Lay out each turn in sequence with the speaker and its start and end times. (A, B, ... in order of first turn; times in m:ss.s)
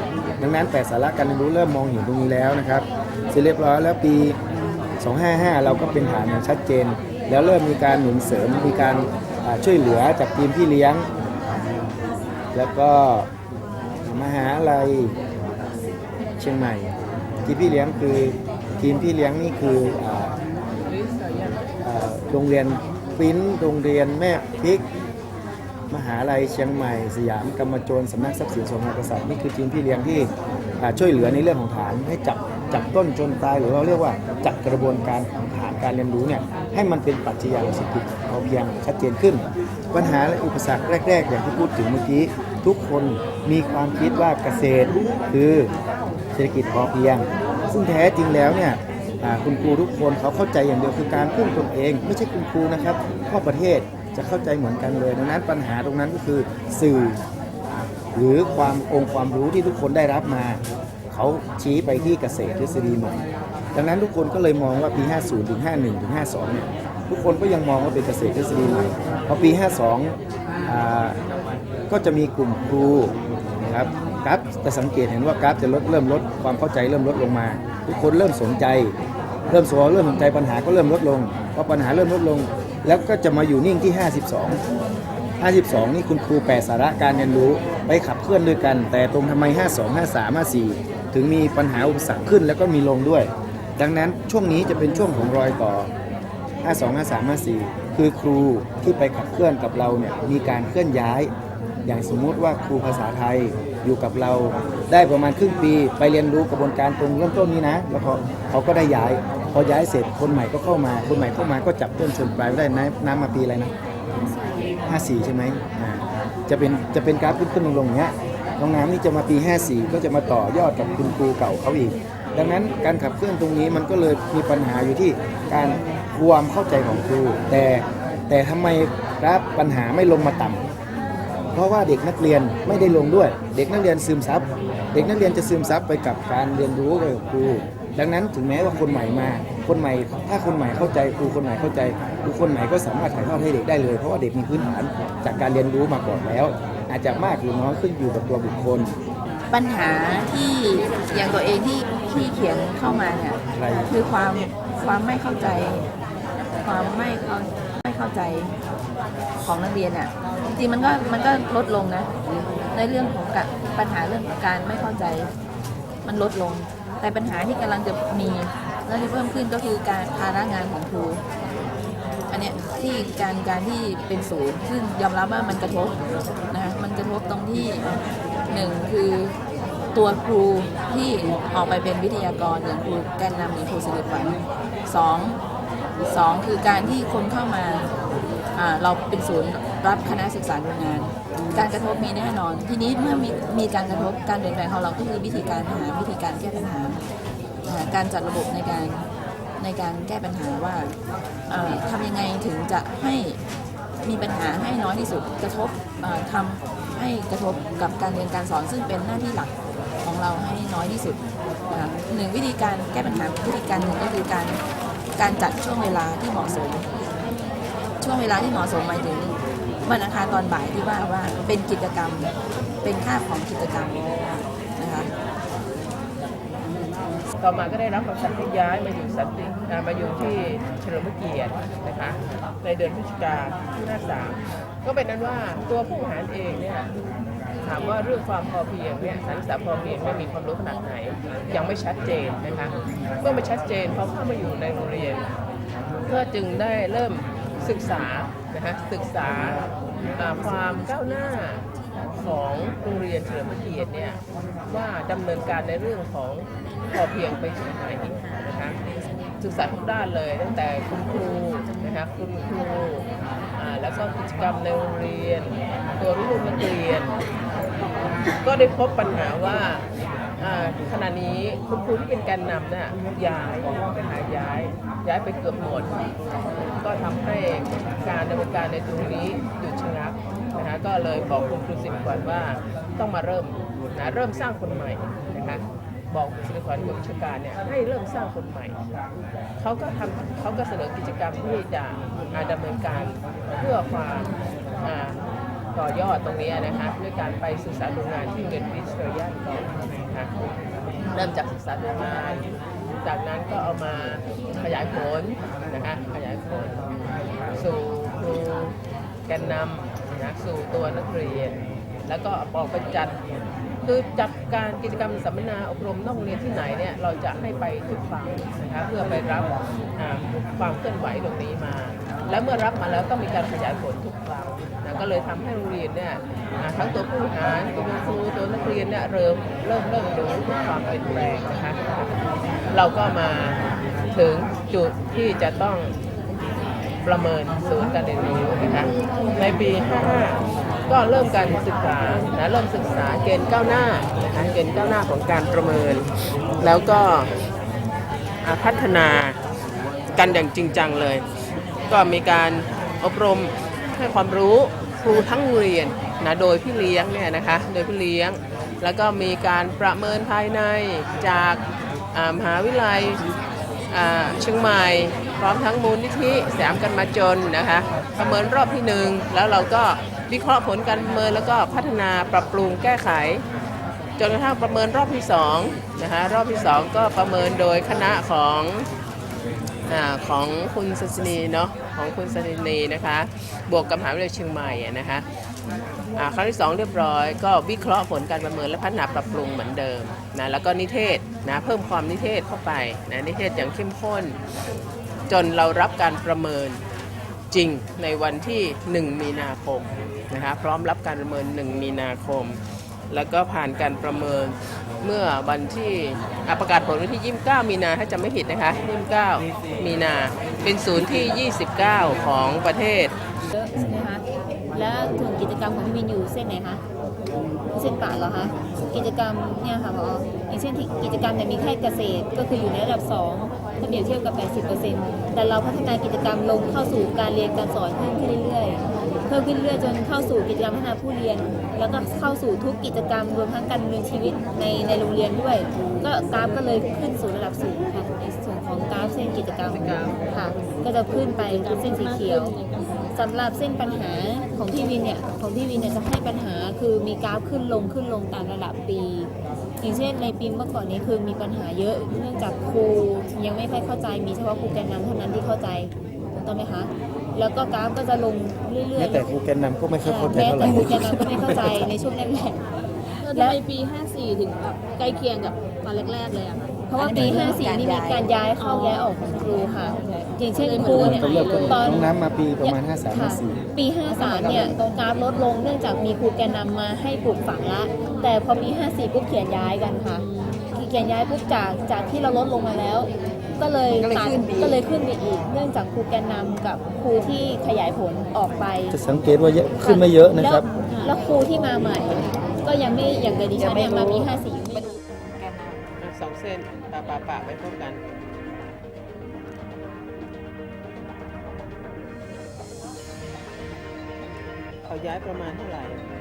0:00.4-0:04.4 A
0:05.0-0:11.1 A
0:12.5-0:13.3 A
0:14.0-0:15.1 A
0:16.4-0:16.9 A
0:17.4-0:20.3 A
0:20.9-0:21.6 B
0:21.8-0:24.8 A
0:25.9-0:45.7 A
0:46.3-0:57.2 A
0:58.1-1:03.2 A
1:03.7-1:11.2 A
1:11.9-1:18.9 A
1:19.5-1:24.6 A
1:25.4-1:35.9 A
1:36.6-1:41.3 A
1:41.8-1:53.7 A
1:54.9-2:10.6 A
2:11.5-2:28.9 A
2:29.5-2:35.8 C
2:33.5-2:34.0 A
2:36.6-2:38.5 C
2:39.4-2:42.1 C
2:42.7-2:45.3 C
2:46.0-2:51.2 C
2:52.3-2:56.0 C
2:56.5-2:59.4 C
2:59.9-3:05.4 C
3:06.1-3:07.9 C
3:08.5-3:17.0 C
3:17.6-3:19.0 C
3:19.6-3:20.9 C
3:21.5-3:23.4 C
3:24.0-3:29.5 C
3:30.0-3:31.2 C
3:31.7-3:34.6 C
3:35.2-3:36.8 C
3:38.0-3:42.3 C
3:42.8-3:44.0 C
3:44.8-3:45.1 C
3:47.4-3:56.9 B
3:57.6-4:05.3 B
4:06.0-4:18.8 B
4:19.4-4:27.1 B
4:28.4-4:29.8 B
4:30.4-4:35.9 B
4:36.8-4:48.8 B
4:49.6-4:54.3 B
4:54.8-4:55.2 B
4:55.7-5:00.3 B
5:01.1-5:02.5 B
5:03.0-5:13.2 B
5:13.8-5:32.1 B
5:32.7-5:36.0 B
5:37.0-5:46.1 B
5:46.6-5:47.3 B
5:48.4-5:49.4 B
5:50.1-5:51.2 B
5:51.9-6:01.6 B
6:02.1-6:03.2 B
6:03.9-6:13.4 B
6:14.2-6:18.9 B
6:19.9-6:25.2 B
6:26.2-6:34.4 B
6:35.3-6:36.8 B
6:37.5-6:53.1 B
6:53.5-6:56.8 D
6:53.7-6:54.0 A
6:57.7-7:22.5 D
7:19.7-7:20.2 B
7:21.5-7:23.1 E
7:23.1-7:39.2 D
7:39.0-7:41.9 A
7:40.0-7:42.6 D
7:43.2-7:49.2 E
7:43.3-7:43.6 D
7:46.9-8:09.0 D
7:47.1-7:47.5 A
7:49.9-7:52.0 E
7:50.9-7:53.6 A
7:54.1-7:54.8 E
8:04.0-8:04.7 E
8:08.9-8:10.7 A
8:09.8-8:14.9 D
8:11.0-8:11.2 E
8:13.5-8:14.3 E
8:15.4-8:15.8 E
8:16.0-8:18.0 B
8:24.8-8:26.0 B